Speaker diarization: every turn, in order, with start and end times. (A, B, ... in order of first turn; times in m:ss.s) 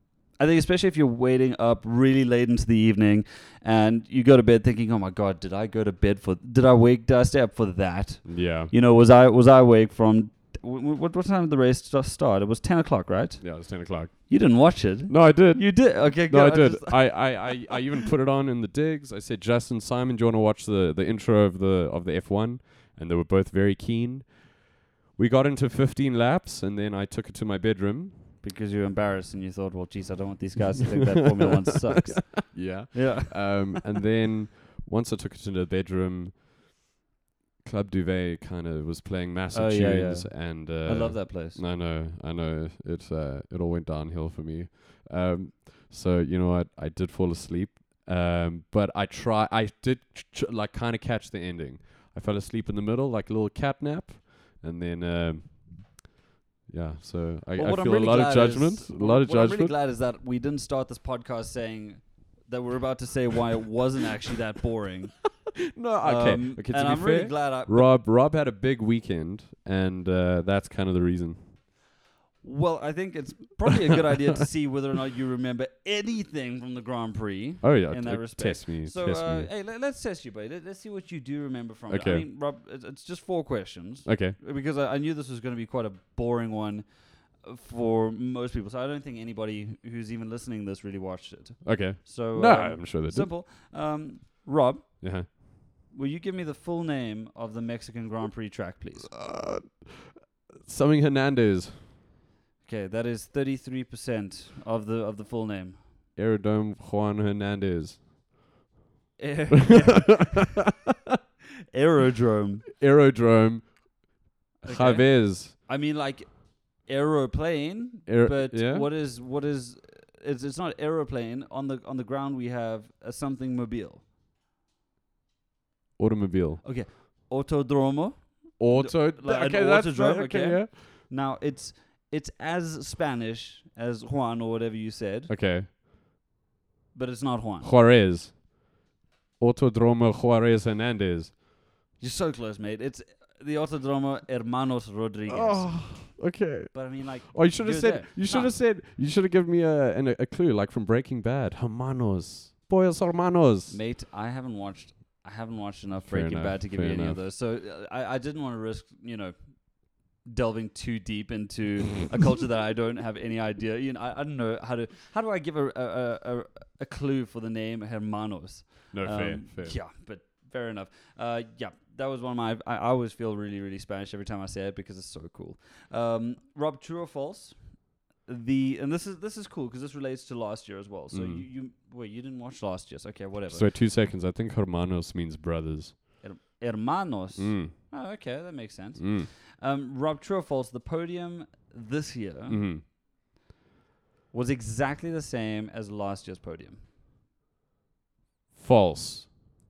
0:00.4-0:17.6 A
0:08.2-0:08.7 B
0:13.4-0:14.3 B
0:15.1-0:28.3 B
0:28.4-0:33.8 A
0:32.1-0:36.5 B
0:37.6-0:56.1 B
0:39.5-0:41.6 A
0:56.7-0:59.7 B
0:57.6-1:05.2 A
1:05.6-1:11.5 B
1:06.0-1:07.9 A
1:12.4-1:26.8 A
1:17.6-1:19.5 B
1:21.9-1:22.2 B
1:24.0-1:24.4 B
1:27.4-1:35.4 A
1:31.6-1:33.3 B
1:35.0-1:35.3 B
1:35.9-1:39.1 A
1:39.0-1:41.9 B
1:42.6-1:45.8 A
1:46.2-1:48.1 B
1:49.2-1:50.6 A
1:49.6-1:50.6 B
1:51.7-1:52.7 A
1:52.8-1:55.5 B
1:54.6-2:04.0 A
1:58.0-1:58.9 B
2:06.0-2:06.6 B
2:06.6-2:15.3 A
2:08.6-2:10.7 B
2:15.3-2:15.7 B
2:16.9-2:17.7 A
2:17.6-2:18.7 B
2:19.4-2:21.4 B
2:22.0-2:26.2 A
2:25.3-2:33.8 B
2:26.7-2:28.6 A
2:33.7-2:57.6 A
2:36.0-2:37.2 B
2:48.9-2:49.8 B
2:58.2-3:03.7 A
3:01.1-3:01.4 B
3:03.5-3:06.0 B
3:06.2-3:12.6 A
3:07.4-3:07.7 B
3:09.0-3:09.3 B
3:12.5-3:12.8 B
3:14.3-3:16.8 A
3:18.5-3:19.4 B